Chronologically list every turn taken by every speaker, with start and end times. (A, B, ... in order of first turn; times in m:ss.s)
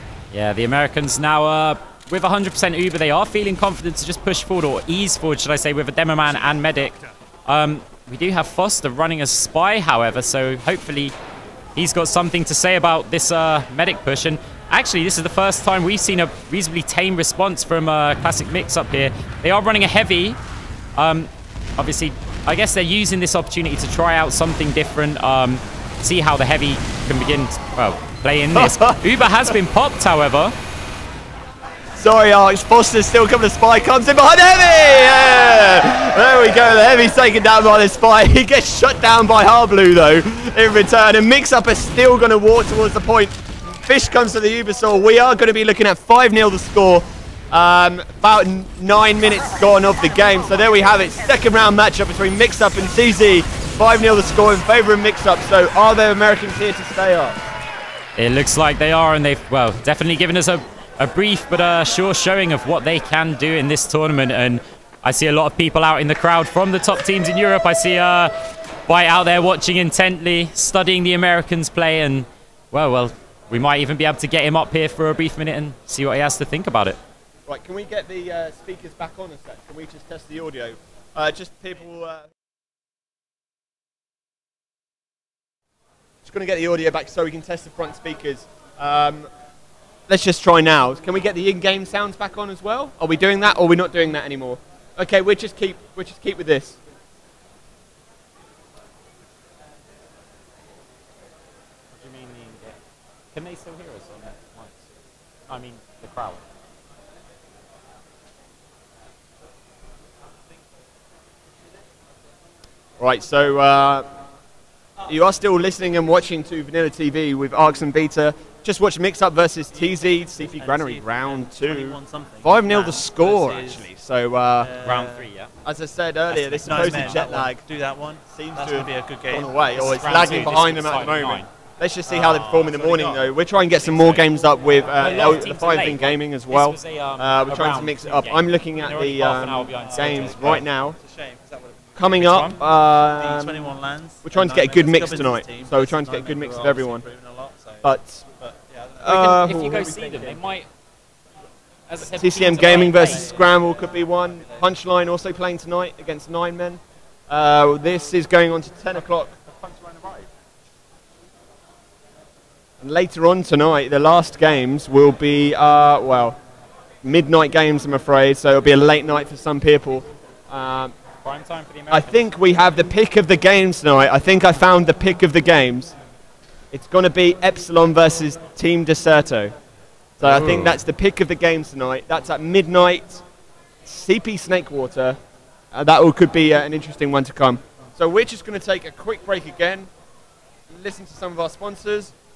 0:00.3-0:11.1 A
0:11.8-0:20.4 A
0:21.0-0:30.5 A
0:28.6-0:29.0 B
0:32.0-0:57.4 B
0:58.2-1:08.3 A
1:08.9-1:17.0 A
1:17.5-1:22.3 B
1:26.2-1:29.3 B
1:30.1-1:36.8 B
1:41.9-1:42.8 A
1:43.3-1:44.8 A
1:45.5-1:46.4 A
1:53.0-1:54.0 B
1:55.1-2:04.7 B
1:59.9-2:03.9 C
2:04.6-2:05.3 C
2:04.8-2:05.5 A
2:05.6-2:07.6 B
2:06.3-2:10.6 C
2:06.7-2:07.1 A
2:08.3-2:21.0 B
2:09.7-2:11.5 A
2:12.1-2:15.1 C
2:15.0-2:20.6 A
2:19.7-2:29.2 C
2:22.0-2:23.7 B
2:22.2-2:22.5 A
2:24.2-2:27.0 B
2:27.8-2:28.2 B
2:29.0-2:30.4 B
2:29.0-2:30.7 A
2:31.9-2:33.4 A
2:32.2-2:39.3 B
2:33.0-2:33.7 C
2:39.8-2:40.1 A
2:42.8-2:46.4 B
2:47.0-2:50.9 B
2:51.2-2:52.2 A
2:51.9-2:55.9 B
2:56.7-2:59.5 B
3:00.2-3:00.8 A
3:00.2-3:03.2 B
3:03.8-3:05.2 B
3:05.7-3:09.9 B
3:10.7-3:12.1 B